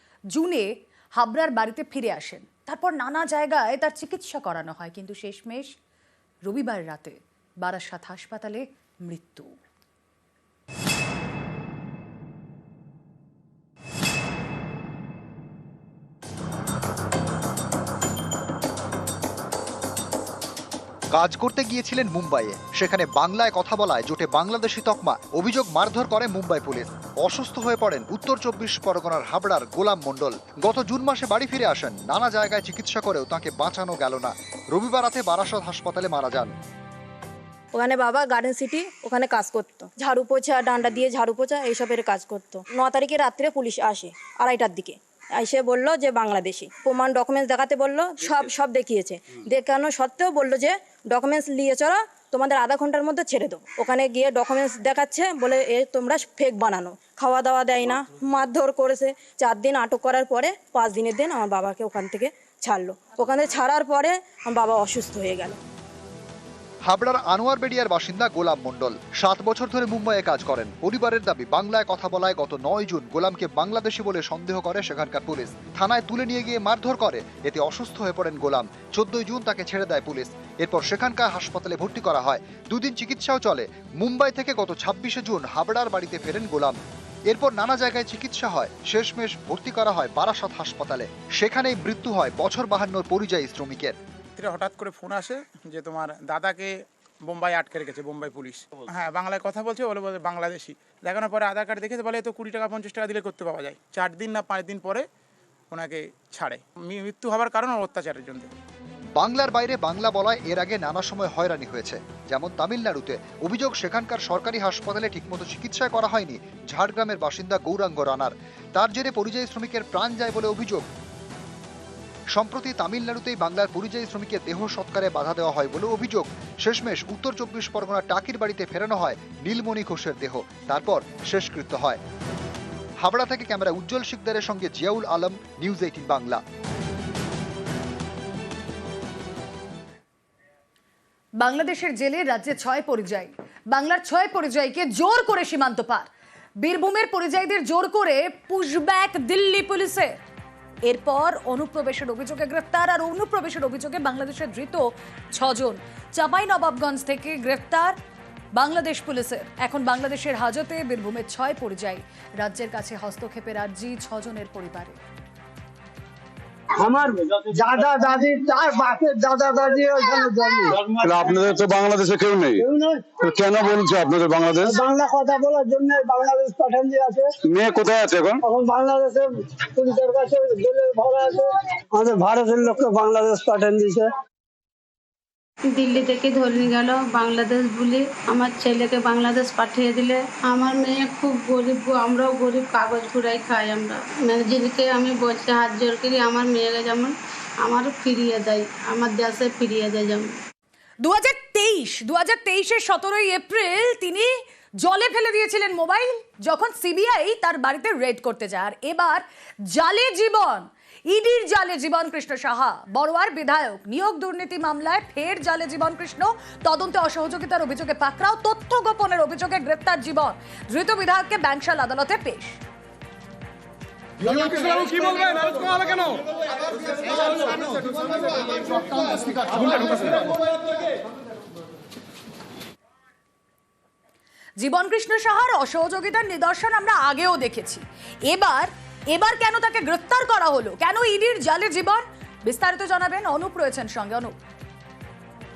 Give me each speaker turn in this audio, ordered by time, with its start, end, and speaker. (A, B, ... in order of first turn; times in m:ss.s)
0:00.3-0:05.7 A
0:06.4-0:09.5 A
0:21.1-0:36.5 B
0:37.8-1:05.6 C
1:06.9-1:26.8 B
1:27.3-1:33.9 B
1:34.4-1:36.7 D
1:37.2-1:45.0 D
1:45.7-1:48.5 D
1:49.1-2:00.9 B
2:02.3-2:12.0 B
2:13.0-2:16.4 B
2:21.4-2:26.1 A
2:26.6-2:30.1 A
2:30.9-2:38.0 A
2:38.6-2:45.0 A
2:46.8-2:51.5 E
2:50.7-2:52.7 F
2:52.6-2:53.2 E
2:53.2-2:54.8 F
2:54.6-2:57.3 E
2:57.4-2:58.4 F
2:58.4-3:04.1 E
3:05.7-3:20.4 G
3:21.0-3:24.3 A
3:24.8-3:42.6 A
3:44.3-3:45.7 A
3:54.6-4:04.3 A